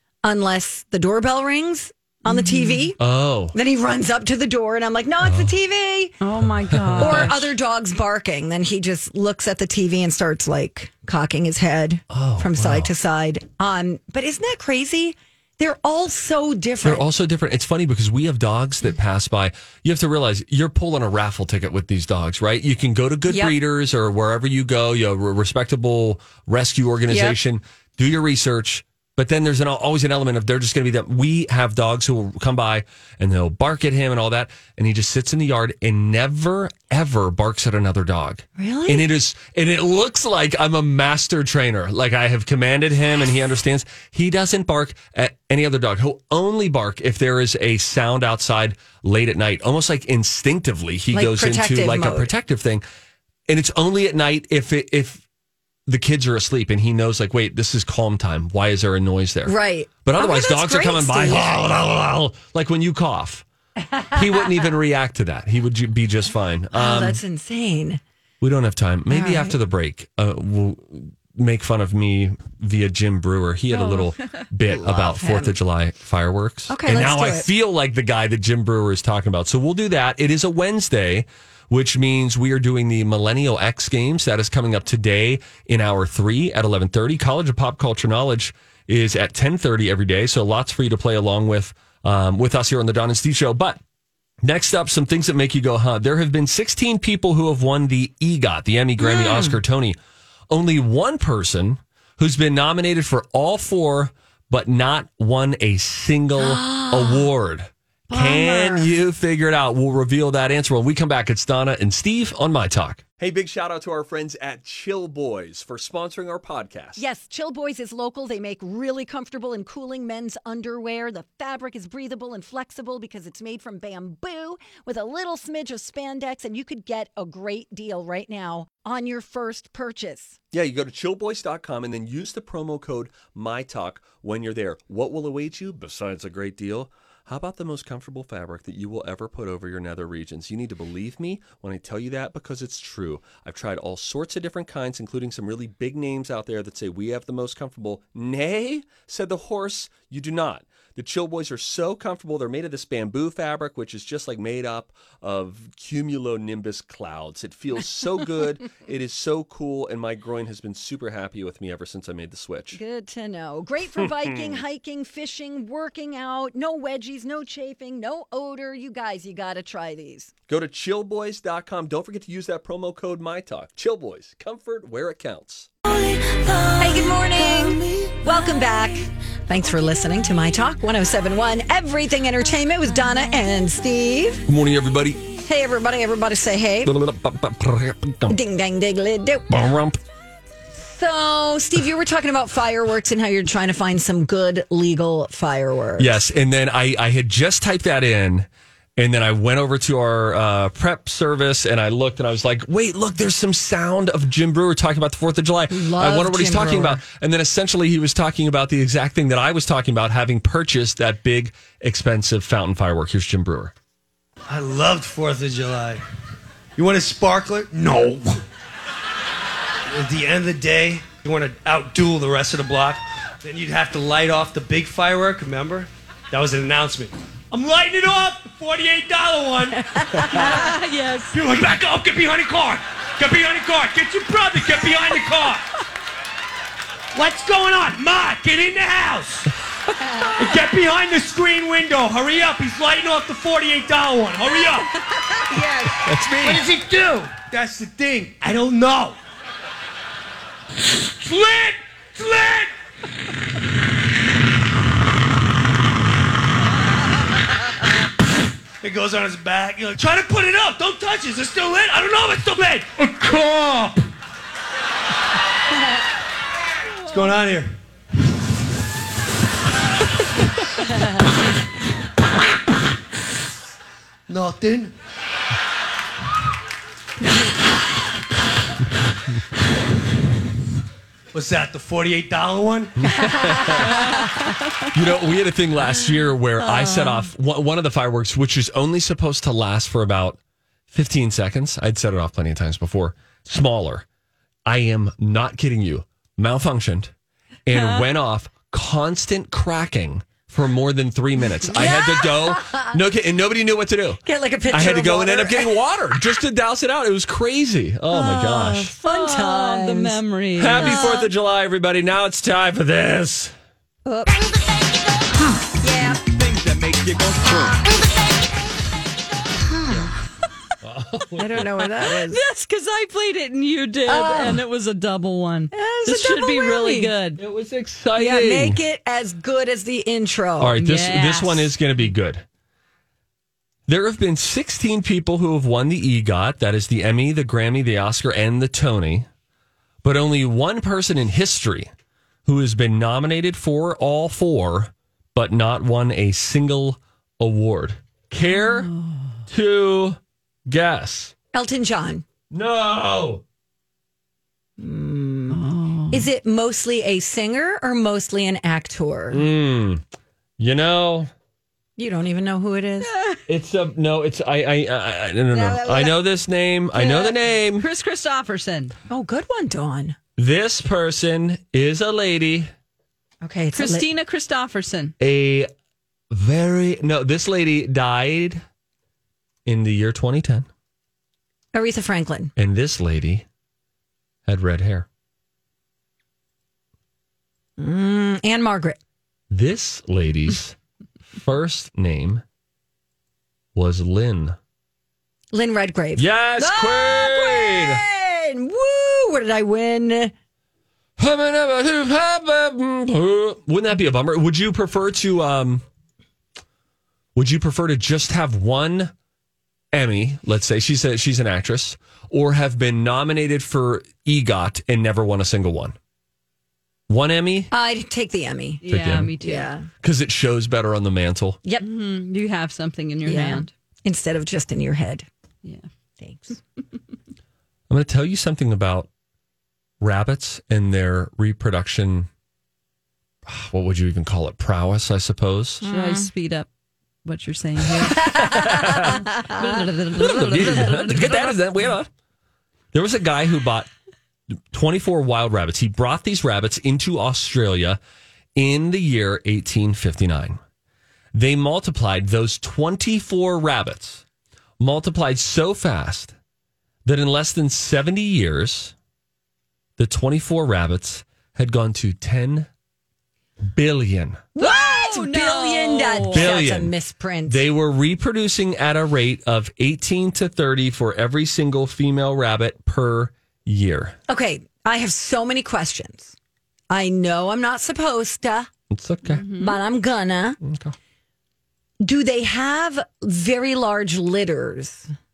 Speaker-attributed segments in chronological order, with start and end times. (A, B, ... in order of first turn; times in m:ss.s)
0:00.2-0:03.0 A
0:02.2-0:02.9 B
0:03.0-0:03.5 C
0:03.5-0:06.2 A
0:05.2-0:05.6 C
0:06.2-0:07.3 B
0:06.4-0:07.3 C
0:07.0-0:17.0 A
0:12.1-0:12.9 C
0:16.8-0:52.8 C
0:23.3-0:23.5 A
0:27.1-0:27.4 A
0:38.6-0:39.1 A
0:51.1-0:52.3 A
0:53.5-0:55.2 C
0:55.9-1:03.4 C
0:59.4-1:01.6 A
1:04.0-1:04.6 A
1:04.1-1:07.2 C
1:06.7-1:08.0 A
1:08.4-1:33.8 C
1:09.1-1:09.6 A
1:13.7-1:14.4 B
1:14.7-1:15.6 A
1:16.7-1:17.5 A
1:34.4-1:40.0 C
1:39.0-1:39.6 A
1:40.5-1:57.0 C
1:46.4-1:47.3 A
1:48.1-1:48.9 A
1:57.0-2:10.4 A
2:10.5-2:42.8 C
2:42.7-2:50.3 A
2:50.5-2:55.7 C
2:56.3-2:56.7 B
2:56.7-3:04.4 A
2:57.7-2:58.0 B
3:04.4-3:05.3 C
3:05.4-3:06.9 A
3:06.8-3:08.4 C
3:08.3-3:09.5 A
3:09.5-3:10.0 C
3:10.7-3:16.2 A
3:16.0-3:33.7 C
3:25.7-3:27.0 A
3:34.5-3:36.0 D
3:36.8-3:38.4 D
3:39.9-3:50.6 D
3:50.0-3:50.6 A
3:50.3-3:51.4 B
3:51.3-3:55.6 D
3:57.1-3:59.5 D
4:00.0-4:00.4 A
4:00.4-4:04.9 D
4:05.3-4:06.0 A
4:06.0-4:06.6 C
4:06.4-4:09.2 D
4:11.2-4:12.7 D
4:18.8-4:24.0 D
4:27.0-4:27.7 D
4:34.3-4:34.9 D
4:41.3-4:43.1 D
4:43.0-4:44.2 C
4:44.9-4:50.4 C
4:50.9-4:54.0 C
4:54.6-4:57.1 C
4:57.6-5:08.9 C
4:57.7-4:58.0 B
5:01.6-5:03.0 A
5:04.2-5:05.8 A
5:08.1-5:10.2 A
5:09.0-5:11.2 B
5:10.6-5:13.5 C
5:10.8-5:11.2 A
5:14.0-5:14.4 A
5:15.8-5:16.2 A
5:16.5-5:17.7 C
5:20.8-5:21.7 C
5:21.3-5:22.4 A
5:22.0-5:27.4 B
5:24.0-5:24.6 A
5:25.7-5:27.1 A
5:27.4-5:28.8 C
5:28.1-5:30.8 A
5:30.6-5:32.4 C
5:30.8-5:31.7 B
5:33.9-5:39.3 C
5:40.0-5:41.9 C
5:42.4-5:48.9 C
5:48.5-5:49.2 B
5:49.5-5:51.3 C
5:51.5-5:52.2 A
5:52.5-5:53.4 C
5:54.8-5:59.5 A
5:55.5-5:56.3 B
5:59.3-6:00.0 C
6:00.6-6:01.3 C
6:02.0-6:03.1 A
6:03.0-6:03.4 B
6:03.5-6:07.8 C
6:05.5-6:06.2 A
6:07.0-6:08.9 B
6:09.1-6:10.2 A
6:10.4-6:12.7 C
6:13.4-6:14.1 A
6:13.7-6:15.1 B
6:15.2-6:15.7 C
6:16.3-6:18.6 C
6:19.6-6:20.7 C
6:21.7-6:22.5 A
6:22.6-6:23.4 C
6:24.5-6:25.0 C
6:27.8-6:29.0 A
6:29.5-6:30.8 C
6:31.4-6:32.4 C
6:33.7-6:34.6 C
6:35.5-6:40.3 A
6:36.2-6:38.0 C
6:41.2-6:45.8 C
6:47.3-6:49.1 C
6:49.9-6:55.9 C
6:57.1-6:57.7 C
6:57.7-6:58.8 A
6:58.8-6:59.7 B
6:58.9-6:59.3 C
6:59.4-6:59.9 A
7:00.0-7:01.6 C
7:01.8-7:03.7 B
7:03.2-7:05.3 A
7:06.2-7:06.6 A
7:07.9-7:09.1 C
7:10.0-7:12.3 C
7:13.4-7:15.8 C
7:15.8-7:16.3 A
7:15.8-7:16.7 B
7:17.2-7:21.8 B
7:18.0-7:19.2 C
7:18.1-7:19.6 A
7:20.2-7:22.1 C
7:22.9-7:23.9 C
7:24.7-7:28.0 C
7:28.6-7:30.6 C
7:31.3-7:34.2 C
7:34.8-7:36.3 C
7:37.0-7:38.9 C
7:40.0-7:42.7 C
7:43.7-7:44.4 C
7:44.5-7:47.6 A
7:44.6-7:46.5 B
7:46.3-7:46.9 C
7:47.4-7:54.2 C
7:54.3-7:56.3 A
7:56.9-7:58.7 A
7:58.9-7:59.4 C
7:59.2-7:59.8 B
7:59.5-8:00.6 A
8:00.6-8:00.9 C
8:02.0-8:05.1 A